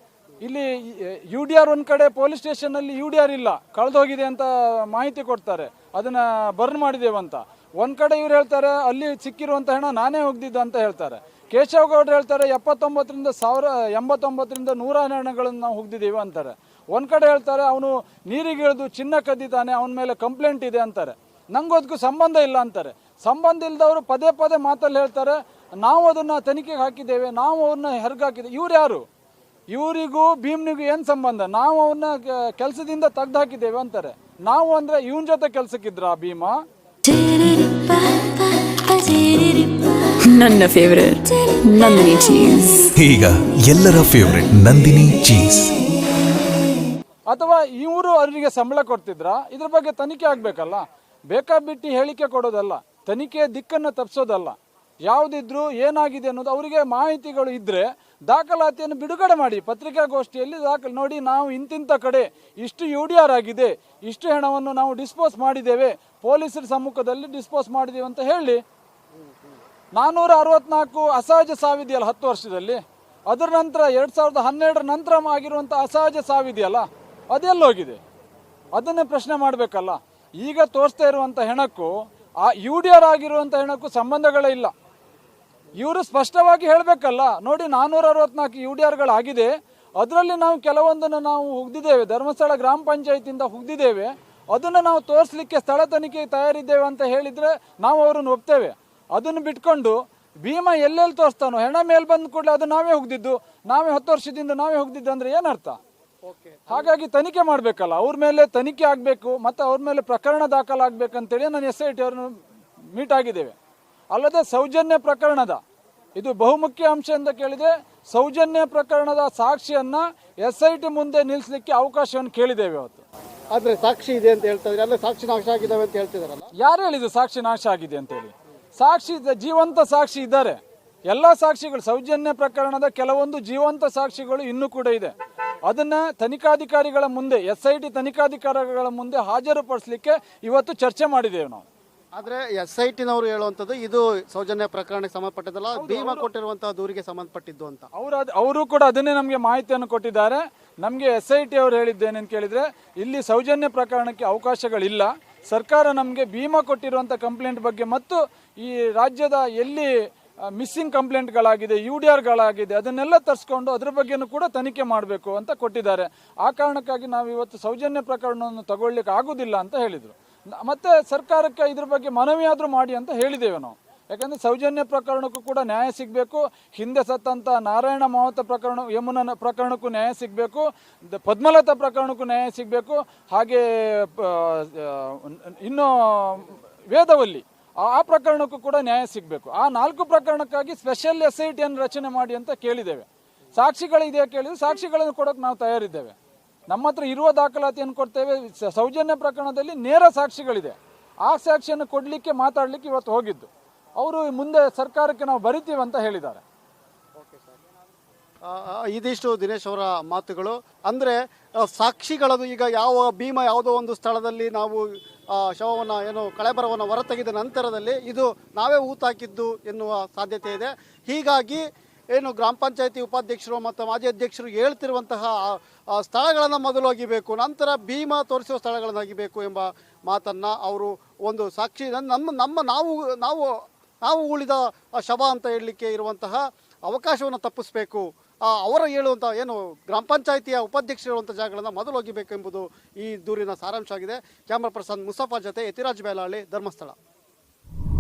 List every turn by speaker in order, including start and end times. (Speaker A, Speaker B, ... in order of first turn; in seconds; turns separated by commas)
Speaker A: 0.4-29.1, Speaker A: 29.7-36.6, Speaker B: 37.1-42.9, Speaker C: 42.9-45.8, Speaker A: 47.3-54.5, Speaker A: 55.1-68.6, Speaker A: 70.0-78.0, Speaker A: 78.7-84.7, Speaker A: 85.8-105.8, Speaker D: 106.3-106.9, Speaker A: 106.7-112.3, Speaker A: 112.9-113.5, Speaker A: 114.1-115.6, Speaker A: 116.2-123.0, Speaker D: 123.5-126.5, Speaker A: 126.6-135.1, Speaker A: 135.7-141.7, Speaker D: 142.2-147.9, Speaker A: 145.8-146.3, Speaker A: 147.9-159.9, Speaker A: 160.5-196.2, Speaker A: 196.7-206.4, Speaker D: 207.2-207.6, Speaker D: 208.5-214.8, Speaker D: 215.3-221.6, Speaker D: 222.1-233.5, Speaker D: 234.1-246.9